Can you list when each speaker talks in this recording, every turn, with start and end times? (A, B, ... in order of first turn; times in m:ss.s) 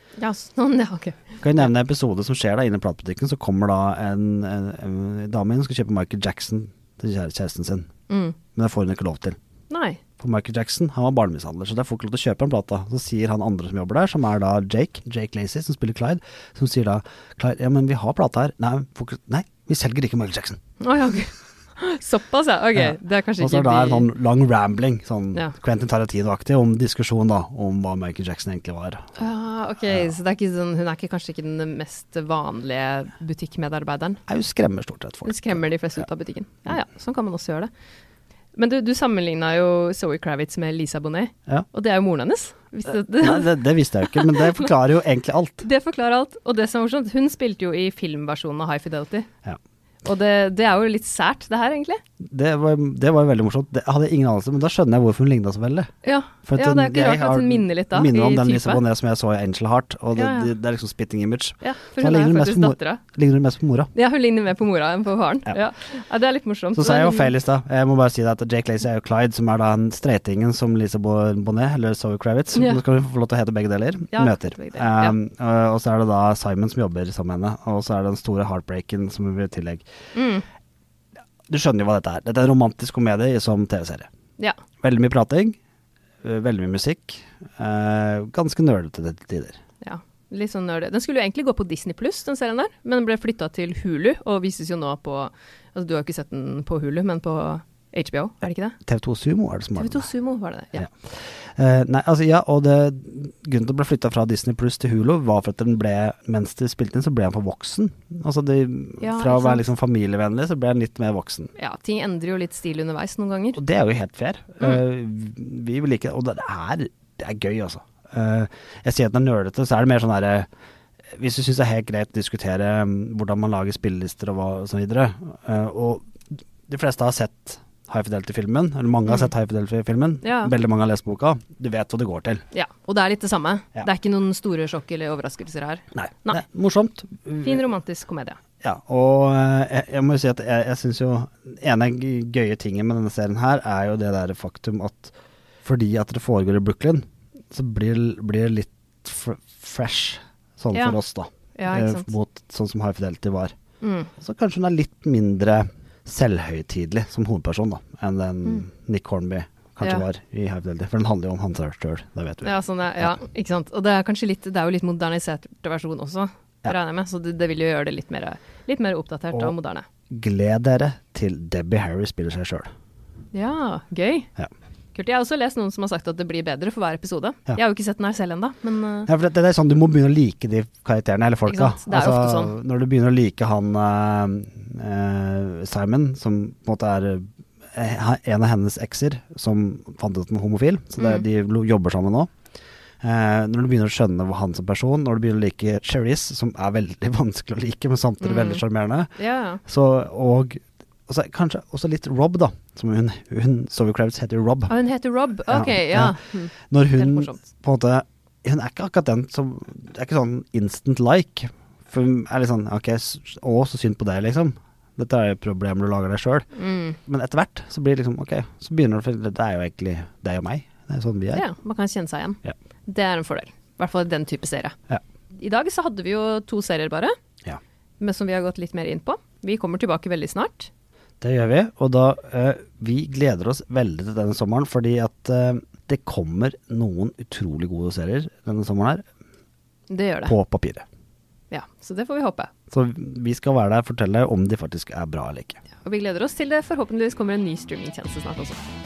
0:00.2-0:01.7 A
0:01.4-0:07.9 B
0:08.1-0:08.4 A
0:08.5-0:09.4 B
0:09.7-0:10.0 A
0:10.2-0:20.6 B
0:20.8-0:24.1 A
0:22.8-0:29.0 B
0:29.2-0:34.2 A
0:34.3-0:36.0 B
0:35.2-0:37.7 A
0:38.6-0:44.7 A
0:43.0-0:45.6 B
0:45.6-0:49.3 A
0:50.0-0:52.0 A
0:52.2-0:55.9 B
0:56.0-0:58.8 A
0:56.5-1:03.9 B
1:00.2-1:00.5 A
1:01.6-1:03.0 A
1:03.9-1:07.3 A
1:06.8-1:19.9 B
1:12.6-1:12.8 A
1:14.1-1:15.2 A
1:20.1-1:20.5 A
1:21.5-1:24.1 B
1:24.8-1:25.6 B
1:26.2-1:29.6 B
1:29.8-1:38.8 A
1:38.8-1:40.1 B
1:39.8-1:40.9 A
1:40.8-1:51.5 B
1:49.0-1:49.6 A
1:51.6-1:53.6 A
1:53.6-2:00.5 B
2:01.2-2:06.1 B
2:06.7-2:12.4 B
2:10.2-2:10.5 A
2:12.5-2:16.4 A
2:16.0-2:17.6 B
2:17.4-2:18.4 A
2:18.6-2:25.1 B
2:25.6-2:33.5 B
2:30.7-2:31.0 A
2:31.6-2:32.1 A
2:33.8-2:34.1 A
2:34.2-2:43.2 B
2:42.4-2:49.9 A
2:50.1-2:52.7 B
2:53.3-2:54.3 A
2:55.0-2:59.1 A
2:59.1-3:12.3 B
3:01.5-3:02.5 A
3:11.0-3:11.2 A
3:13.0-3:24.8 B
3:18.2-3:18.6 A
3:19.2-3:19.6 A
3:24.7-3:27.5 A
3:25.5-3:36.5 B
3:36.6-3:37.0 A
3:37.0-3:41.5 B
3:41.3-3:44.8 A
3:45.4-3:47.2 A
3:48.0-3:50.7 A
3:51.2-3:59.0 B
3:59.9-4:00.4 A
4:00.3-4:00.8 B
4:01.5-4:02.5 A
4:02.7-4:05.6 B
4:05.8-4:08.6 A